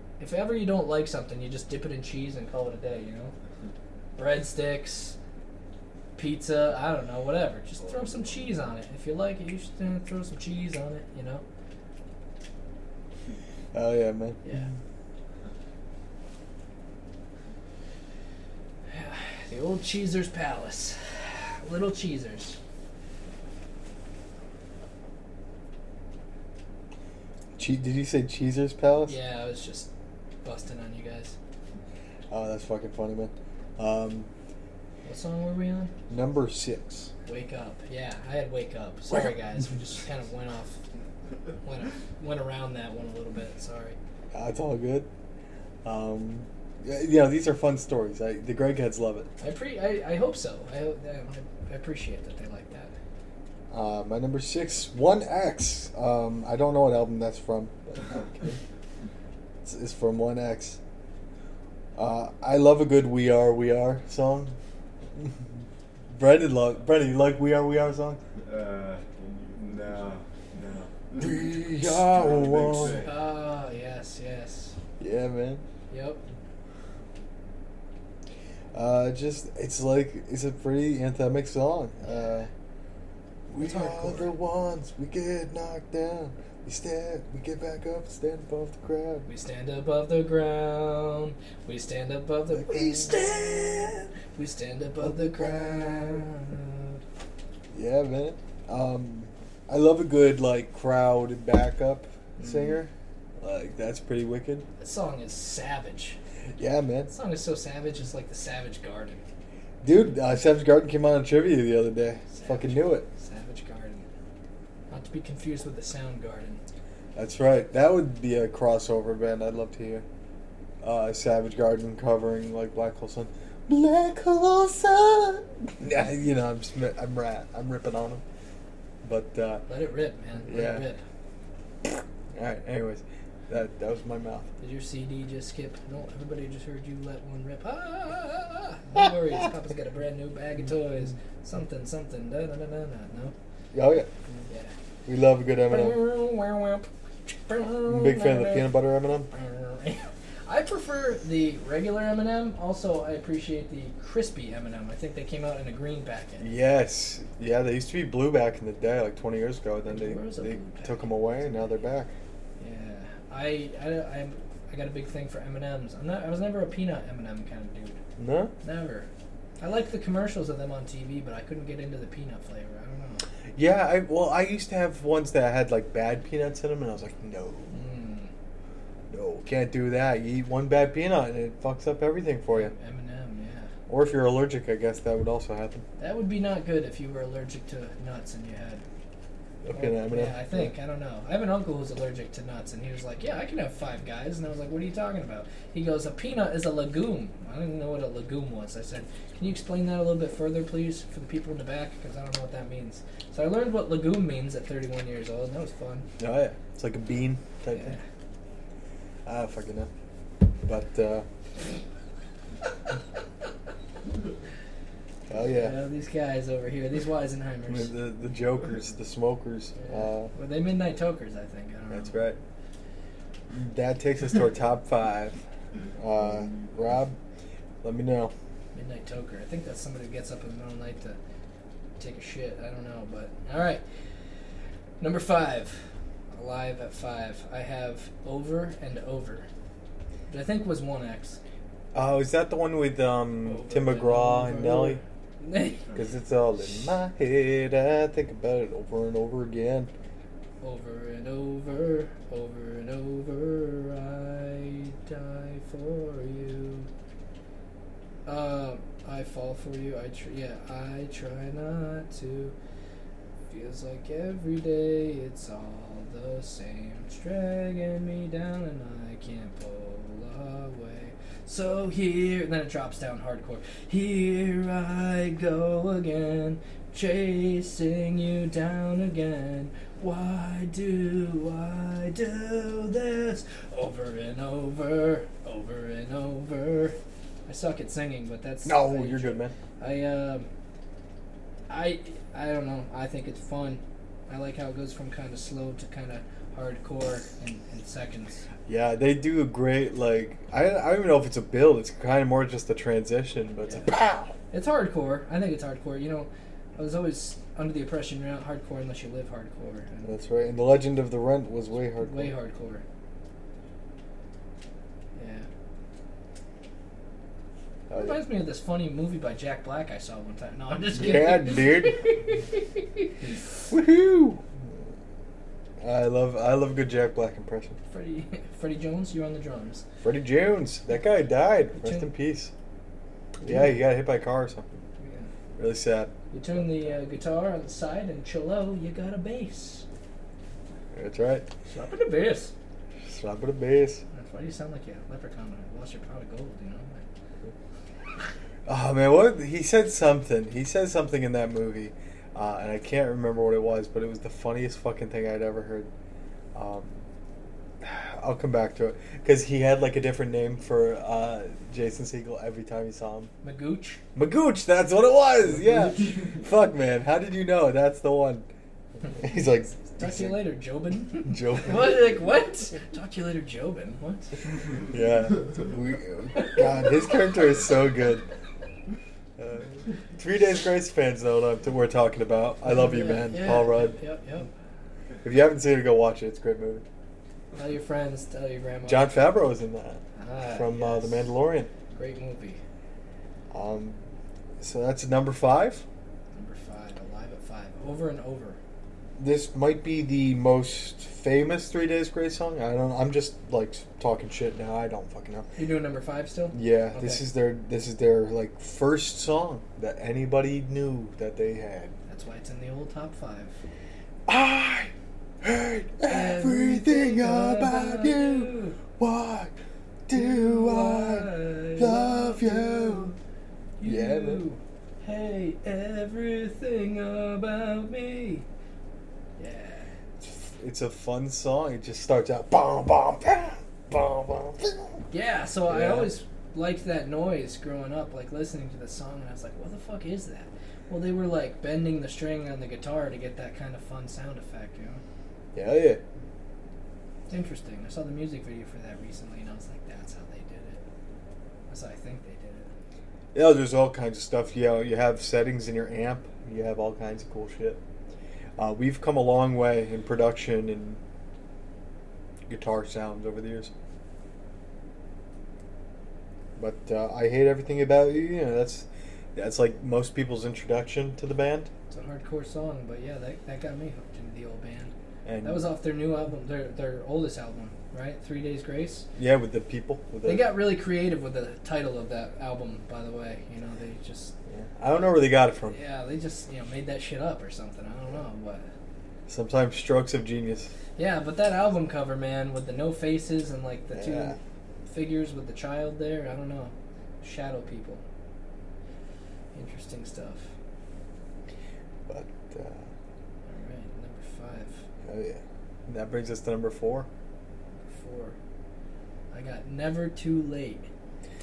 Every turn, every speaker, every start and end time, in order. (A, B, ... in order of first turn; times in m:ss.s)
0:00.2-0:03.3 A
0:04.2-0:05.2 A
0:06.2-0:11.4 A
0:13.7-0:14.4 B
0:14.4-0:14.7 A
0:18.9-0:22.6 A
0:27.6-0:29.2 B
0:29.0-0:29.9 A
0:30.4-0:31.3 A
0:32.3-0:34.3 B
0:35.0-0:35.9 A
0:36.1-0:37.1 B
0:37.2-0:40.8 A
0:41.6-0:44.0 A
0:44.3-0:45.1 B
0:45.8-0:49.3 B
0:49.4-0:52.9 A
0:53.7-0:58.6 B
0:59.6-1:00.8 B
1:02.0-1:04.6 B
1:06.1-1:08.2 B
1:08.4-1:13.2 C
1:11.2-1:13.1 B
1:13.0-1:14.8 A
1:15.0-1:15.6 B
1:15.9-1:16.2 A
1:18.7-1:22.5 B
1:22.0-1:22.3 A
1:23.5-1:29.3 B
1:23.6-1:24.3 A
1:29.3-1:37.0 A
1:32.5-1:33.5 B
1:35.0-1:36.3 B
1:37.7-1:44.6 B
1:42.4-1:42.8 A
1:44.8-1:46.2 A
1:46.6-1:47.1 B
1:47.1-1:49.2 A
1:49.8-1:53.1 B
1:52.3-1:54.0 A
1:54.9-1:56.6 A
1:57.2-2:00.0 B
2:00.8-2:08.2 B
2:09.0-2:09.6 B
2:09.7-2:11.0 A
2:10.4-2:10.9 B
2:12.3-2:14.5 B
2:14.6-2:23.3 A
2:23.7-2:24.1 B
2:25.0-2:26.0 B
2:25.7-2:28.7 A
2:27.8-2:29.3 B
2:29.3-2:36.5 A
2:36.4-2:42.1 B
2:39.9-2:41.7 A
2:42.6-2:48.0 A
2:48.2-2:48.5 B
2:48.6-2:49.1 A
2:49.6-2:53.2 A
2:53.6-2:57.7 B
2:57.7-2:58.3 A
2:59.1-3:02.7 B
3:02.5-3:03.7 A
3:03.9-3:05.8 B
3:06.0-3:08.8 A
3:09.6-3:10.7 B
3:09.7-3:26.1 A
3:26.2-3:28.0 B
3:27.7-3:28.0 A
3:29.2-3:29.9 B
3:30.6-3:31.2 B
3:35.3-3:35.8 B
3:35.4-3:37.9 A
3:37.7-3:40.3 B
3:39.8-3:42.2 A
3:41.9-3:42.4 B
3:43.5-3:45.4 B
3:46.0-3:47.2 B
3:47.8-3:48.3 B
3:48.7-3:51.2 A
3:52.0-3:53.8 A
3:55.0-3:55.8 A
3:56.3-3:59.5 A
4:00.3-4:01.4 A
4:01.9-4:05.0 B
4:03.4-4:05.8 A
4:05.9-4:09.9 B
4:10.6-4:16.9 A
4:18.2-4:22.5 A
4:23.5-4:50.5 A
4:48.6-4:49.5 B
4:51.7-4:58.4 A
4:58.7-5:04.3 B
5:04.5-5:10.1 A
5:10.0-5:12.3 B
5:12.0-5:12.8 A
5:15.2-5:15.5 A
5:17.9-5:18.2 B
5:17.9-5:23.1 A
5:20.9-5:22.0 B
5:23.7-5:24.4 B
5:25.8-5:27.8 B
5:27.9-5:29.8 A
5:30.0-5:32.5 B
5:31.7-5:32.1 A
5:33.4-5:34.8 B
5:35.0-5:35.3 A
5:35.6-5:36.1 B
5:36.3-5:39.8 A
5:40.9-5:41.4 B
5:41.7-5:42.5 A
5:43.0-5:44.0 B
5:44.1-5:47.0 A
5:48.6-5:55.9 B
5:56.5-5:56.9 B
5:57.8-6:03.3 B
6:03.4-6:04.0 A
6:04.1-6:08.5 B
6:09.1-6:10.4 B
6:09.9-6:14.4 A
6:11.2-6:12.1 B
6:14.9-6:18.2 B
6:16.4-6:16.9 A
6:19.4-6:24.0 B
6:22.6-6:24.5 A
6:25.2-6:26.8 B
6:27.5-6:29.2 A
6:28.8-6:31.7 B
6:30.2-6:31.3 A
6:31.9-6:32.6 A
6:33.5-6:34.0 B
6:34.6-6:35.8 B
6:36.3-6:38.6 A
6:39.2-6:45.5 B
6:45.6-6:47.2 A
6:46.5-6:51.9 B
6:52.1-6:53.6 A
6:54.3-6:59.5 B
6:56.1-6:58.8 A
7:00.1-7:03.1 B
7:00.1-7:03.1 A
7:03.8-7:08.4 A
7:03.8-7:04.4 B
7:09.4-7:09.9 A
7:10.2-7:15.0 B
7:15.1-7:25.0 A
7:15.7-7:16.1 B
7:25.5-7:26.0 B
7:27.3-7:30.8 A
7:31.7-7:32.7 A
7:33.3-7:37.8 B
7:38.6-7:41.0 B
7:42.5-7:43.7 B
7:46.6-7:51.7 B
7:51.9-7:54.9 A
7:55.2-7:55.6 B
7:55.4-7:59.1 A
7:59.2-8:00.5 B
8:00.2-8:04.3 A
8:04.5-8:05.8 B
8:05.7-8:08.7 A
8:09.3-8:10.7 B
8:11.0-8:14.4 A
8:13.9-8:14.4 B
8:14.9-8:18.0 A
8:19.5-8:20.5 A
8:22.1-8:22.9 B
8:23.5-8:24.8 A
8:25.0-8:27.1 B
8:27.9-8:28.4 A
8:29.3-8:30.9 A